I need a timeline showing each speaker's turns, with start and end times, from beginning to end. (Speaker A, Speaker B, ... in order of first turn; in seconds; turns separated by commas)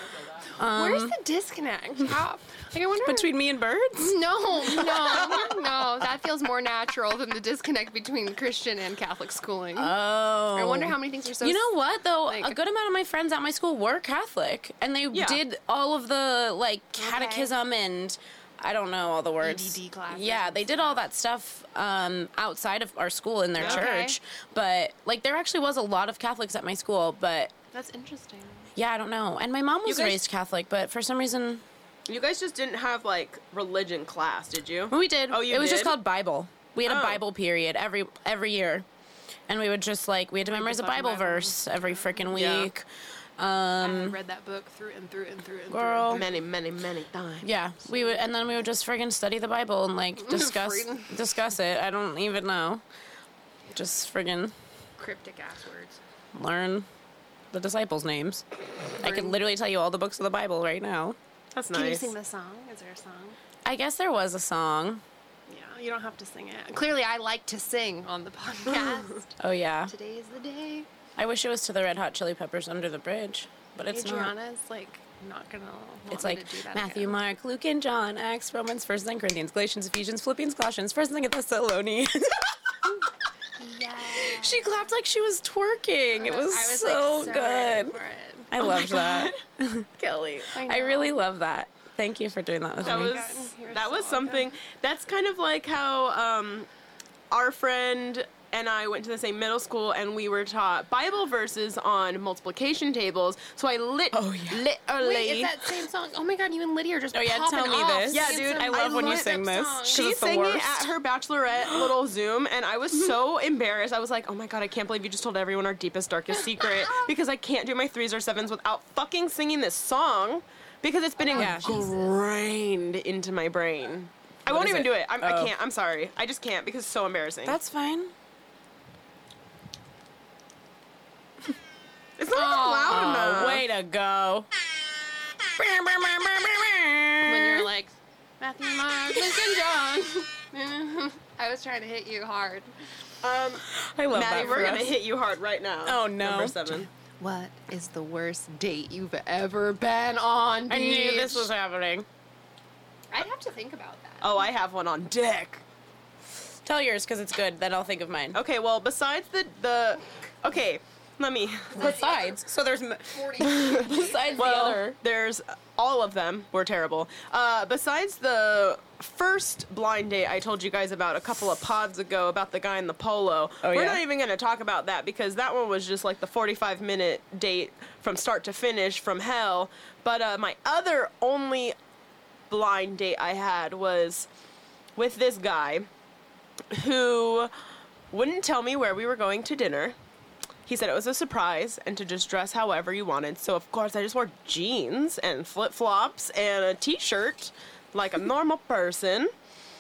Speaker A: 0.5-3.3, Speaker B: 0.6-1.1, Speaker B: 3.0-5.6, Speaker A: 4.0-10.0, Speaker B: 9.8-27.5, Speaker A: 10.5-11.6, Speaker A: 12.3-12.6, Speaker C: 15.1-15.4, Speaker A: 17.0-17.5, Speaker A: 19.4-21.0, Speaker C: 23.6-23.9, Speaker A: 23.6-24.2, Speaker A: 27.7-28.7, Speaker B: 28.8-31.6, Speaker C: 29.9-30.2, Speaker C: 32.1-36.0, Speaker B: 34.9-38.9, Speaker C: 36.9-37.2, Speaker B: 39.5-42.8, Speaker A: 40.4-42.3, Speaker C: 42.3-42.7, Speaker B: 43.4-44.2, Speaker A: 43.8-46.2, Speaker B: 45.7-46.2, Speaker C: 46.1-47.5, Speaker B: 47.4-52.8, Speaker A: 47.9-48.2, Speaker A: 50.2-51.1, Speaker B: 53.7-54.5, Speaker A: 55.0-56.0, Speaker B: 56.3-56.9, Speaker B: 57.5-58.4, Speaker A: 59.0-59.4, Speaker B: 59.0-61.2, Speaker C: 61.5-62.1, Speaker A: 61.7-63.4, Speaker B: 63.6-65.0, Speaker A: 65.5-69.4, Speaker B: 69.4-69.9, Speaker A: 69.9-70.9, Speaker B: 71.2-74.3, Speaker A: 73.9-77.2, Speaker B: 76.1-82.5, Speaker A: 83.6-84.9, Speaker B: 84.2-88.0, Speaker A: 86.1-88.8, Speaker B: 88.5-89.9, Speaker C: 88.6-89.4, Speaker C: 90.0-90.6, Speaker A: 90.5-91.1, Speaker B: 90.7-93.2, Speaker A: 92.8-94.5, Speaker C: 92.8-96.7, Speaker C: 97.3-105.6, Speaker B: 104.1-104.6, Speaker A: 105.0-110.1, Speaker B: 107.1-110.9, Speaker C: 108.1-109.3, Speaker C: 109.9-127.6, Speaker A: 121.2-122.0, Speaker B: 121.3-121.8, Speaker B: 124.5-125.5, Speaker B: 127.5-128.1, Speaker C: 132.2-133.7, Speaker A: 132.3-133.2, Speaker B: 132.9-134.5, Speaker B: 135.5-137.7, Speaker A: 137.2-142.7, Speaker C: 143.2-146.9, Speaker B: 143.7-145.0, Speaker A: 144.3-144.9, Speaker B: 145.8-146.6, Speaker A: 147.2-151.5, Speaker B: 150.7-152.1, Speaker A: 153.1-154.4, Speaker C: 154.2-155.6, Speaker B: 156.7-158.4, Speaker C: 158.3-162.0, Speaker A: 161.7-162.4, Speaker B: 161.8-165.0, Speaker A: 163.1-164.5, Speaker C: 164.4-181.8, Speaker B: 173.6-174.0, Speaker C: 182.5-184.3, Speaker C: 185.0-185.9, Speaker C: 186.7-187.5, Speaker C: 188.1-190.0, Speaker C: 190.7-199.3